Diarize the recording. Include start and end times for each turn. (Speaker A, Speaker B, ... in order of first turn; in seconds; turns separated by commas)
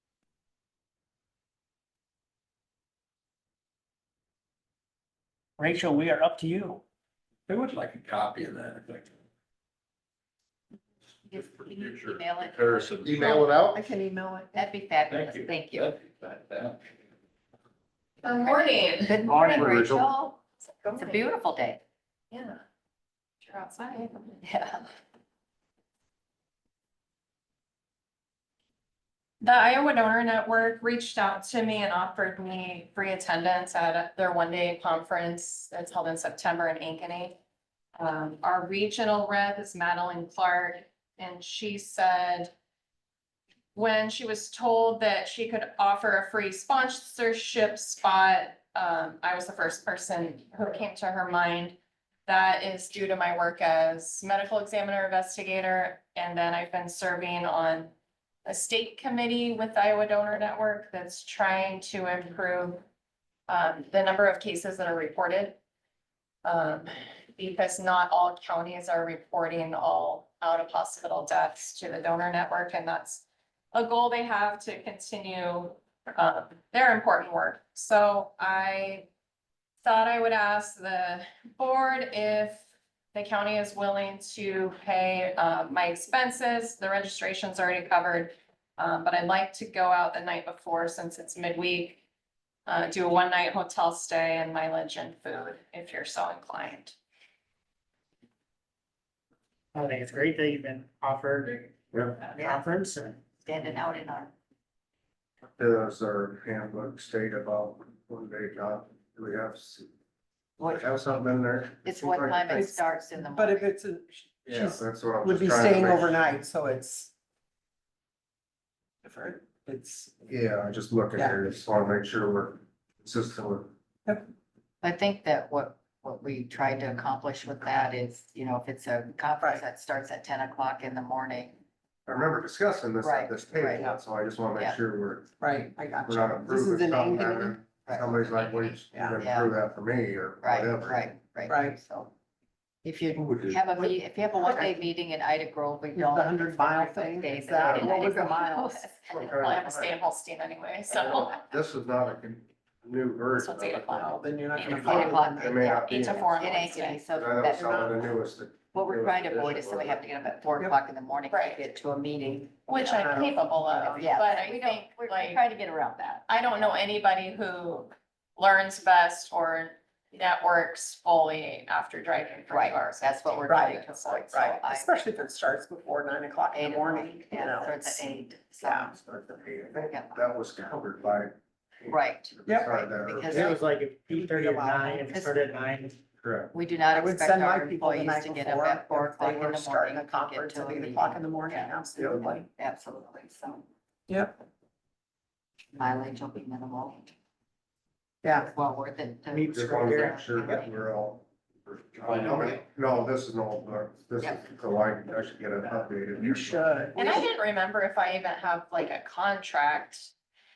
Speaker A: 5.6-6.8, Speaker B: 7.5-9.1, Speaker C: 11.3-13.1, Speaker B: 11.3-13.5, Speaker D: 13.0-13.8, Speaker E: 13.2-14.7, Speaker C: 14.5-16.0, Speaker B: 15.1-16.8, Speaker F: 18.2-19.5, Speaker C: 18.4-21.8, Speaker D: 19.3-20.1, Speaker F: 20.8-21.2, Speaker F: 22.3-22.6, Speaker F: 23.4-24.4, Speaker C: 24.4-24.9, Speaker F: 29.4-37.4, Speaker F: 38.0-42.5, Speaker F: 43.8-57.9, Speaker F: 58.5-62.8, Speaker F: 63.5-65.6, Speaker F: 66.5-79.1, Speaker F: 79.8-92.0, Speaker F: 92.7-97.0, Speaker A: 99.7-101.7, Speaker C: 102.3-102.6, Speaker A: 102.4-103.2, Speaker C: 103.4-104.3, Speaker D: 105.6-109.9, Speaker C: 110.6-110.9, Speaker D: 110.6-112.6, Speaker C: 111.8-113.7, Speaker E: 112.4-117.1, Speaker D: 114.5-116.2, Speaker E: 119.0-120.2, Speaker D: 120.3-123.7, Speaker E: 121.2-121.4, Speaker C: 124.8-131.6, Speaker D: 132.1-135.3, Speaker C: 133.0-133.9, Speaker E: 135.4-137.6, Speaker D: 136.1-141.1, Speaker C: 137.8-139.6, Speaker E: 138.9-139.2, Speaker C: 140.4-142.1, Speaker E: 141.5-141.8, Speaker C: 142.8-149.4, Speaker D: 143.1-143.7, Speaker E: 143.7-144.8, Speaker E: 145.9-149.0, Speaker D: 147.6-148.1, Speaker D: 149.1-149.9, Speaker F: 149.1-151.4, Speaker D: 150.9-154.1, Speaker F: 153.3-157.0, Speaker E: 153.9-155.7, Speaker C: 154.6-158.2, Speaker D: 154.9-160.0, Speaker C: 158.7-163.1, Speaker F: 161.3-161.7, Speaker F: 162.7-165.4, Speaker E: 162.8-164.2, Speaker C: 163.9-166.8, Speaker F: 166.3-174.3, Speaker C: 172.5-175.0, Speaker E: 173.5-178.1, Speaker C: 176.5-179.0, Speaker E: 178.6-179.0, Speaker D: 178.9-181.4, Speaker C: 179.9-180.3, Speaker C: 181.9-183.5, Speaker D: 182.4-183.6, Speaker E: 182.5-182.8, Speaker A: 183.3-186.0, Speaker E: 184.1-185.4, Speaker D: 186.2-186.5, Speaker C: 186.5-193.6, Speaker E: 186.9-192.5, Speaker E: 194.1-194.3, Speaker C: 195.7-197.1, Speaker E: 198.2-198.5, Speaker C: 198.3-200.8, Speaker A: 199.3-200.2, Speaker D: 199.5-206.7, Speaker B: 202.2-202.5, Speaker E: 206.2-207.3, Speaker F: 207.0-210.1